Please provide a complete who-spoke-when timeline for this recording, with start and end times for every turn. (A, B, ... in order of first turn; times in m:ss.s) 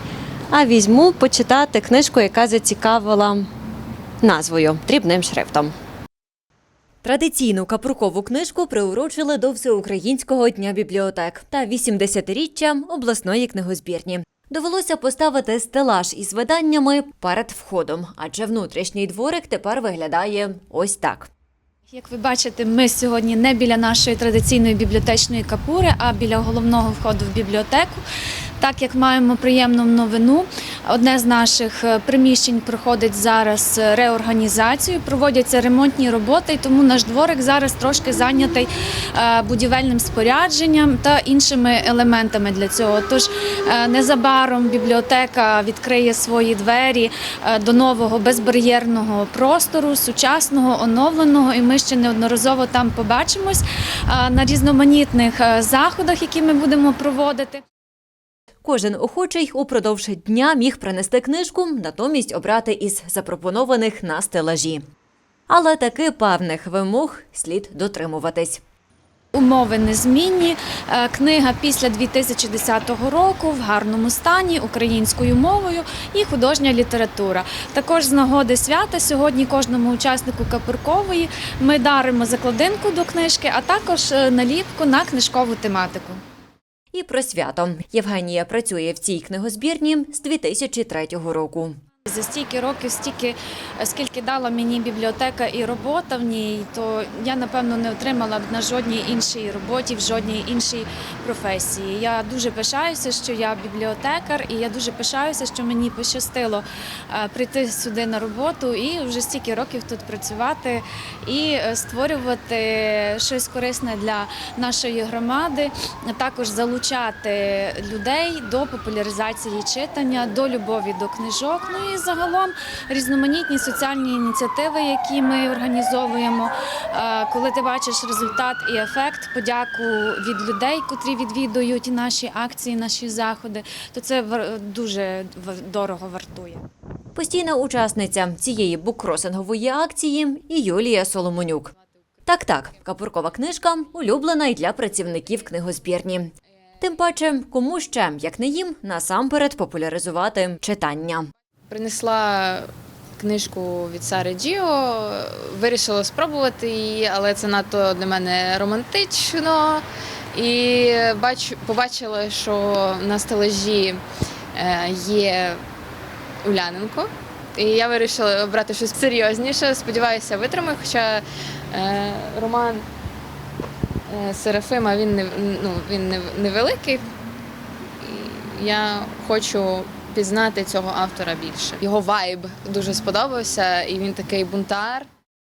0:00.5-0:03.5 A
0:04.2-0:05.7 A
0:07.0-0:21.3 A
0:21.9-0:28.0 B
0:28.6-0:57.6 B
0:58.6-1:04.8 A
1:05.5-1:08.6 A
1:09.3-1:26.2 B
1:26.9-1:31.8 A
1:32.0-2:16.6 B
2:17.1-2:21.7 A
2:22.2-2:31.3 A
2:31.7-2:44.0 C
2:44.5-2:45.6 C
2:46.4-2:52.8 C
2:54.1-2:57.0 C
2:58.0-3:05.1 C